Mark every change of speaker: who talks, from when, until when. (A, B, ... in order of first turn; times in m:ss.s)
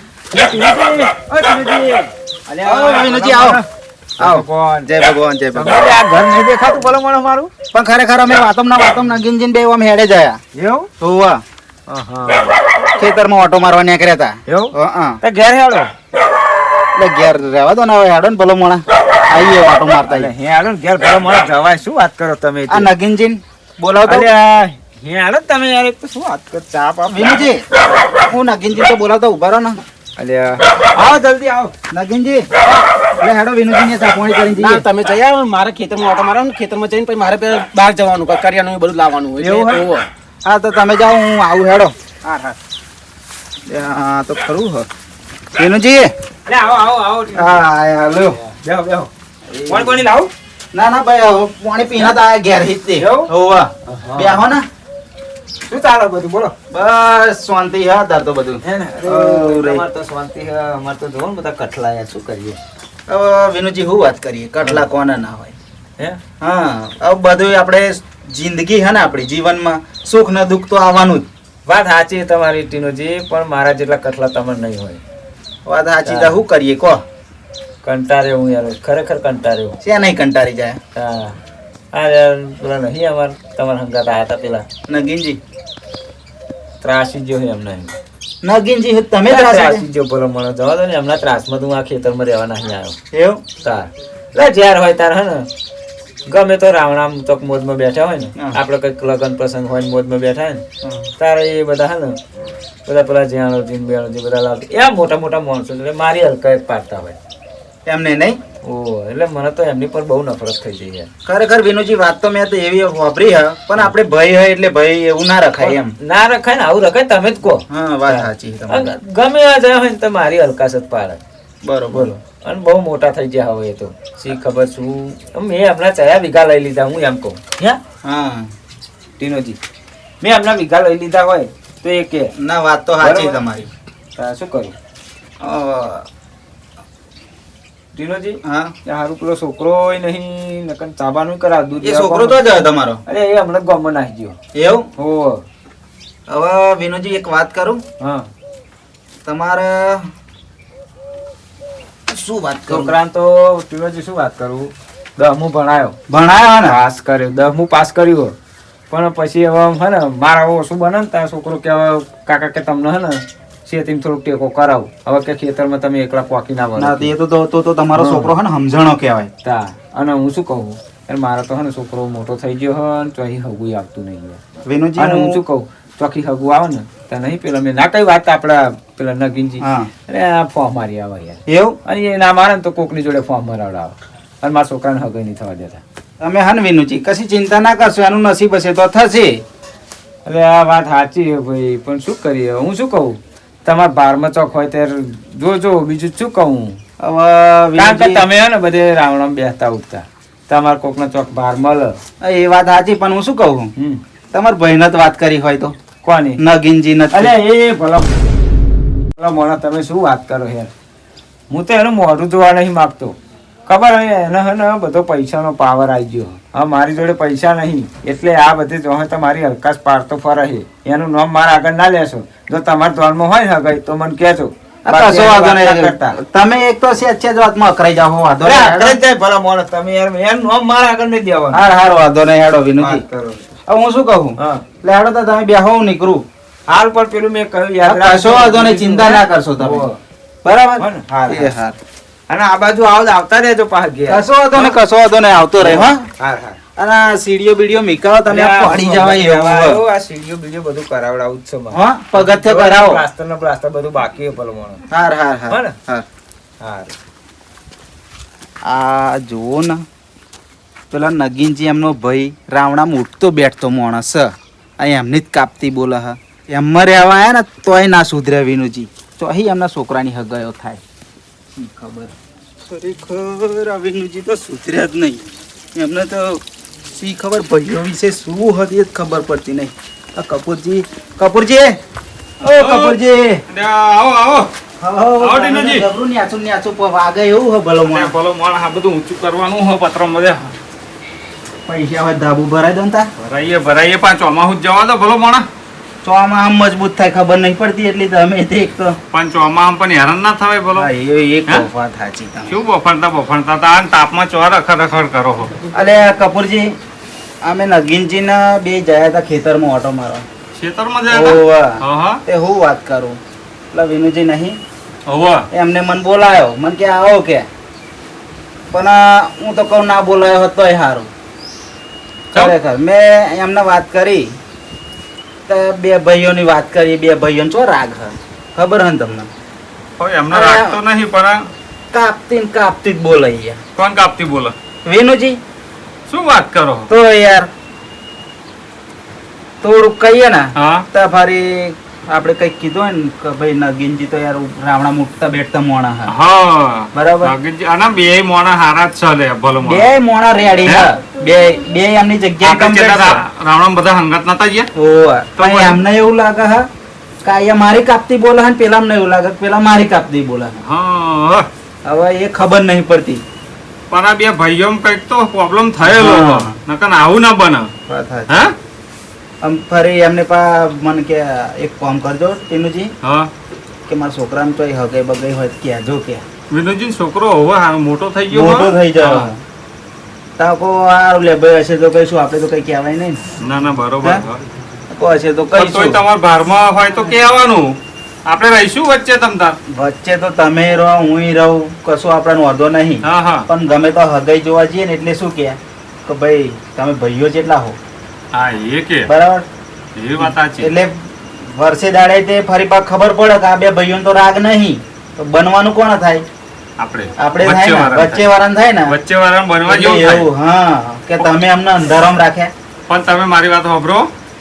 0:00.3-0:03.7 A
0:02.6-0:03.6 B
0:04.2-0:04.9 A
0:04.2-0:05.9 B
0:05.5-0:07.5 A
0:07.7-0:10.4 B
0:10.5-0:10.9 A
0:11.0-0:11.4 B
0:11.9-0:12.5 A
0:13.0-0:15.2 B
0:14.5-0:15.9 A
0:17.0-0:20.3 B
0:20.1-0:22.9 A
0:22.7-0:24.8 B
0:24.1-0:24.3 A
0:24.9-0:27.5 A
0:27.1-0:27.6 B
0:28.3-0:29.8 B
0:30.2-0:31.7 A
0:31.9-0:32.5 B
0:33.0-0:34.8 B
0:34.6-0:40.1 C
0:39.4-0:39.9 B
0:40.4-0:42.6 B
0:43.7-0:44.9 B
0:45.6-0:46.1 B
0:46.5-0:47.6 A
0:47.4-0:48.4 B
0:48.2-0:49.1 A
0:49.5-0:50.0 B
0:49.7-0:50.3 A
0:50.7-0:54.6 B
0:53.0-0:53.3 A
0:53.9-0:54.4 A
0:55.7-0:56.5 A
0:56.7-0:59.8 B
0:58.6-1:02.6 A
1:03.1-1:05.6 B
1:06.4-1:11.3 B
1:11.7-1:15.0 A
1:15.7-1:17.0 B
1:16.0-1:16.4 A
1:17.8-1:19.8 A
1:19.8-1:20.8 B
1:21.0-1:21.4 A
1:21.9-1:24.7 A
1:24.9-1:25.4 B
1:26.8-1:27.9 A
1:28.4-1:29.8 B
1:29.3-1:33.0 A
1:33.1-1:33.4 B
1:33.6-1:35.5 A
1:36.3-1:40.6 A
1:40.8-1:41.1 B
1:41.2-1:42.2 A
1:42.8-1:47.2 A
1:47.9-1:48.4 B
1:48.6-1:51.1 A
1:51.2-1:55.9 B
1:55.6-2:01.2 A
1:57.7-1:59.0 B
2:01.6-2:02.2 B
2:01.9-2:07.8 A
2:08.0-2:08.5 B
2:09.2-2:09.6 A
2:10.2-2:12.3 A
2:12.4-2:13.7 B
2:13.0-2:13.4 A
2:14.2-2:14.7 A
2:15.4-2:16.1 B
2:17.9-2:22.4 A
2:18.5-2:18.7 B
2:21.8-2:23.0 B
2:23.1-2:24.4 A
2:24.6-2:24.9 B
2:25.0-2:25.4 A
2:26.3-2:27.8 B
2:28.0-2:28.3 A
2:29.3-2:30.1 B
2:32.1-2:33.0 B
2:32.7-2:36.0 A
2:36.1-2:36.8 B
2:36.6-2:38.3 A
2:38.9-2:47.1 A
2:46.8-2:49.3 B
2:48.0-2:48.3 A
2:49.4-2:54.4 A
2:54.7-2:55.4 B
2:55.0-3:05.8 A
2:59.6-2:59.9 B
3:01.5-3:01.8 B
3:06.2-3:09.4 B
3:10.2-3:16.8 A
3:17.0-3:18.2 B
3:17.8-3:22.0 A
3:22.2-3:23.7 B
3:24.3-3:25.8 B
3:26.0-3:26.4 A
3:26.4-3:27.3 B
3:27.1-3:28.1 A
3:29.2-3:30.7 A
3:31.5-3:33.2 A
3:33.7-3:46.2 A
3:44.9-3:49.0 B
3:48.4-3:51.6 A
3:51.5-3:53.0 B
3:52.8-3:53.5 A
3:53.7-3:56.2 B
3:54.4-3:54.6 A
3:56.7-4:00.0 A
3:57.8-3:59.9 B
4:00.4-4:01.8 B
4:00.8-4:01.6 A
4:02.3-4:04.8 A
4:04.1-4:06.1 B
4:05.6-4:06.6 A
4:06.8-4:09.8 B
4:08.3-4:14.8 A
4:11.7-4:13.0 B
4:14.9-4:16.0 B
4:15.5-4:15.8 A
4:16.6-4:16.9 A
4:18.7-4:19.8 B
4:20.9-4:30.8 B
4:31.6-4:32.1 B
4:32.7-4:36.4 B
4:37.0-4:41.8 B
4:42.4-4:43.4 B
4:42.4-4:44.5 D
4:44.8-4:48.1 B
4:45.2-4:45.9 D
4:47.9-4:50.5 D
4:51.7-4:53.1 B
4:53.2-4:55.5 D
4:56.0-4:59.0 B
4:59.1-5:00.9 D
5:00.8-5:02.6 B
5:02.5-5:05.6 D
5:05.7-5:06.7 B
5:07.4-5:10.2 B
5:10.6-5:12.2 D
5:11.1-5:13.2 B
5:13.7-5:14.6 B
5:15.1-5:15.4 D
5:15.5-5:17.5 B
5:18.7-5:21.1 B
5:22.3-5:24.4 B
5:25.5-5:29.3 B
5:30.0-5:31.4 D
5:30.3-5:30.8 B
5:31.9-5:33.6 B
5:33.8-5:34.5 D
5:34.8-5:35.4 B
5:36.1-5:36.9 D
5:36.9-5:37.5 B
5:39.6-5:46.1 B
5:40.6-5:40.9 D
5:46.1-5:49.9 D
5:47.0-5:47.3 B
5:49.6-5:53.2 B
5:52.4-5:54.7 D
5:54.8-5:56.7 B
5:55.4-5:55.8 D
5:57.2-6:00.6 B
6:00.7-6:01.5 D
6:01.8-6:03.2 B
6:03.9-6:07.7 D
6:05.8-6:06.6 B
6:07.9-6:08.4 B
6:08.3-6:08.6 D
6:09.4-6:12.9 B
6:13.0-6:13.3 D
6:13.9-6:16.2 B
6:16.5-6:19.3 D
6:18.3-6:19.4 B
6:20.4-6:23.2 B
6:23.4-6:24.5 D
6:24.9-6:26.0 B
6:25.6-6:29.6 D
6:29.7-6:37.8 B
6:33.0-6:33.5 D
6:38.3-6:39.1 D
6:39.1-6:39.5 B
6:40.0-6:40.7 D
6:40.2-6:46.2 B
6:46.8-6:48.3 D
6:47.2-6:49.0 B
6:48.9-6:50.3 D
6:49.6-6:52.5 B
6:52.9-6:54.1 D